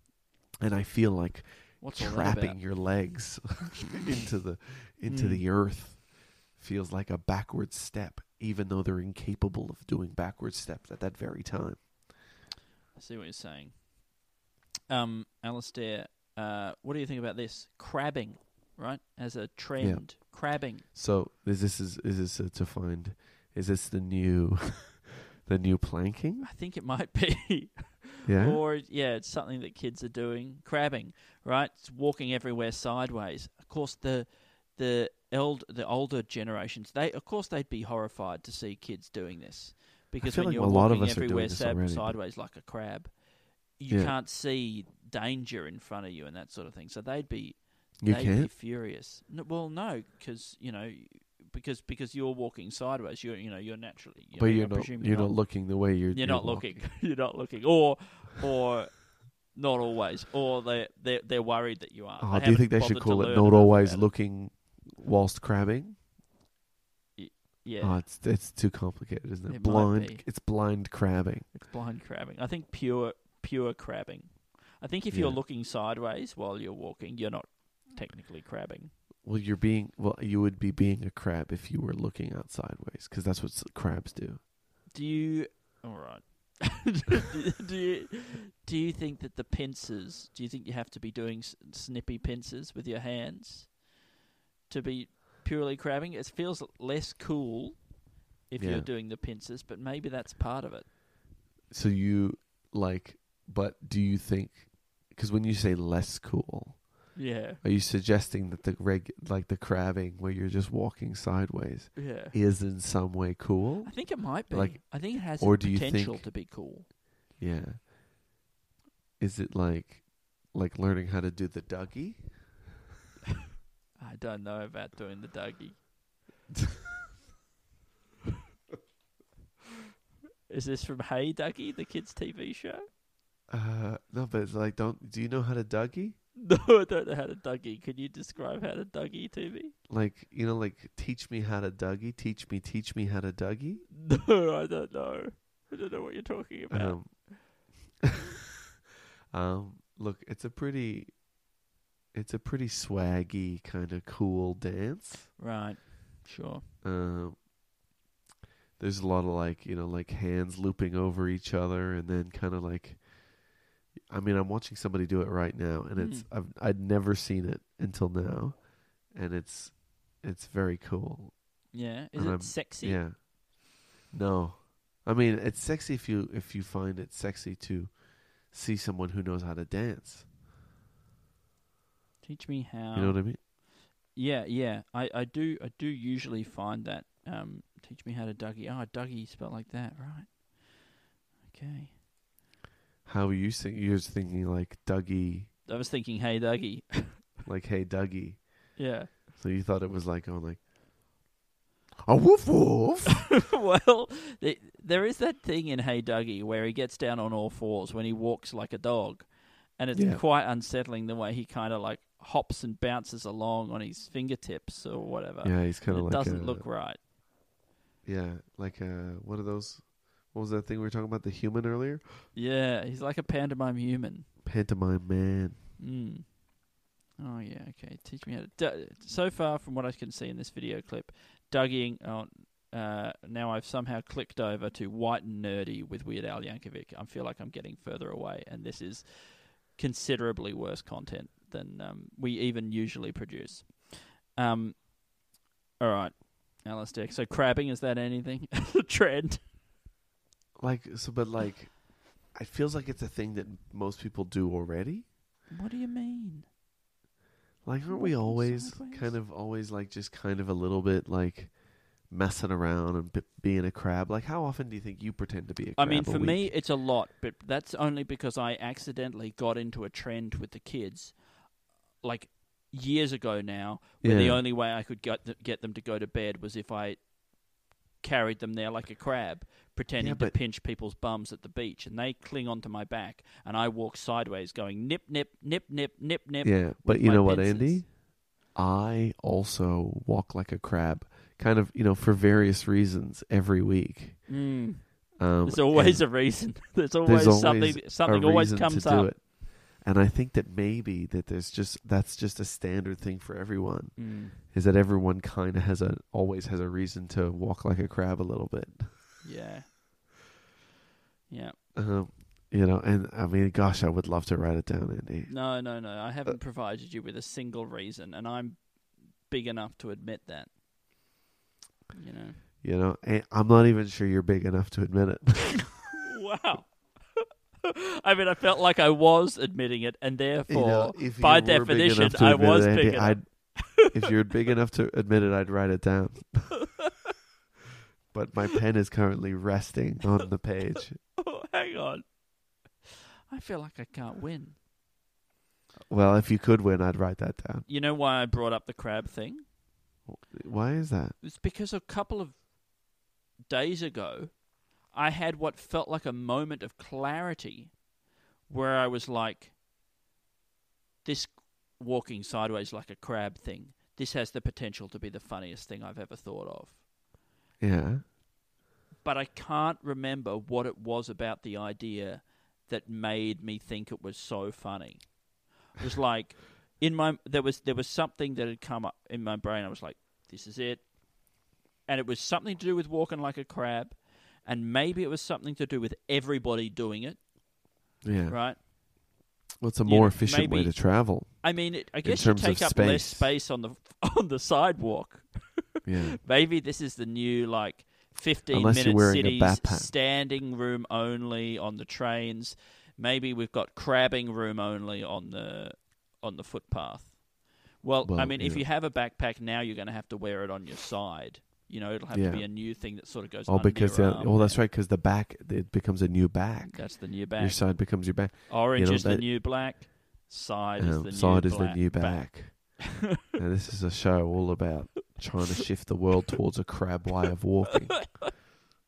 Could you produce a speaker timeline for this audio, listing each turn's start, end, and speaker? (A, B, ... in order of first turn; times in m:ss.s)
0:00.6-0:12.1 A
0:01.8-0:03.0 B
0:05.1-0:05.5 B
0:13.0-0:14.1 B
0:14.9-0:20.8 B
0:19.8-0:26.5 A
0:26.4-1:04.1 B
0:28.2-0:28.6 A
0:40.2-0:42.2 A
0:43.9-0:44.1 A
0:48.0-0:48.5 A
0:54.3-0:56.9 A
1:02.2-1:06.0 A
1:07.2-1:08.0 B
1:07.8-1:11.5 A
1:09.5-1:10.3 B
1:11.5-1:18.9 B
1:15.1-1:15.4 A
1:19.2-1:24.4 A
1:24.9-1:33.8 B
1:34.7-1:40.9 B
1:38.6-1:38.9 A
1:41.7-1:56.4 A
1:47.1-1:47.6 B
1:51.9-1:52.4 B
1:53.8-1:56.9 B
1:57.4-1:57.9 A
1:59.2-2:02.6 A
2:04.0-2:05.8 B
2:10.5-2:12.8 B
2:13.5-2:16.2 A
2:16.4-2:19.7 B
2:19.9-2:23.9 A
2:23.9-2:27.4 B
2:26.7-2:27.8 A
2:29.3-2:31.4 A
2:32.1-2:35.3 A
2:35.4-2:36.6 B
2:36.8-2:37.4 A
2:38.8-2:43.5 A
2:44.1-3:00.3 A
2:46.0-2:46.3 B
2:51.7-2:53.0 B
3:02.2-3:03.6 B
3:02.9-3:03.4 A
3:04.1-3:10.9 B
3:11.4-3:12.0 B
3:13.0-3:15.5 A
3:15.6-3:17.3 B
3:17.4-3:21.1 A
3:18.8-3:19.1 B
3:22.0-3:23.3 A
3:23.5-3:37.0 B
3:29.9-3:30.2 A
3:35.4-3:36.7 A
3:38.0-3:42.2 A
3:42.3-3:44.3 B
3:44.4-3:45.6 A
3:45.8-3:46.5 B
3:47.2-4:05.2 B
4:05.8-4:09.4 B
4:10.6-4:15.1 A
4:15.5-4:16.5 B
4:17.6-4:26.5 A
4:17.9-4:19.1 B
4:25.8-4:47.8 B
4:34.0-4:34.4 A
4:40.0-4:40.4 A
4:46.4-5:09.1 A
4:54.3-4:59.1 B
5:04.0-5:04.4 B
5:09.2-5:09.9 B
5:11.3-5:11.6 B
5:11.7-5:16.4 A
5:15.3-5:20.5 B
5:21.9-5:22.4 B
5:22.6-5:25.8 A
5:26.1-5:27.2 B
5:28.0-5:33.9 B
5:30.5-5:36.7 A
5:38.1-5:41.0 A
5:41.2-5:44.6 B
5:45.9-5:47.6 A
5:47.6-5:49.4 B
5:50.0-5:51.2 A
5:51.2-5:52.9 B
5:53.5-5:57.8 B
5:58.5-5:59.6 B
6:01.0-6:06.8 B
6:07.6-6:08.1 A
6:09.0-6:27.3 B
6:28.0-6:28.8 A
6:28.3-6:28.6 B
6:29.6-6:33.3 A
6:29.8-6:54.6 B
6:35.8-6:36.2 A
6:38.5-6:39.9 A
6:48.0-6:48.6 A
6:52.1-6:59.3 A
6:56.6-7:02.8 B
7:00.8-7:08.4 A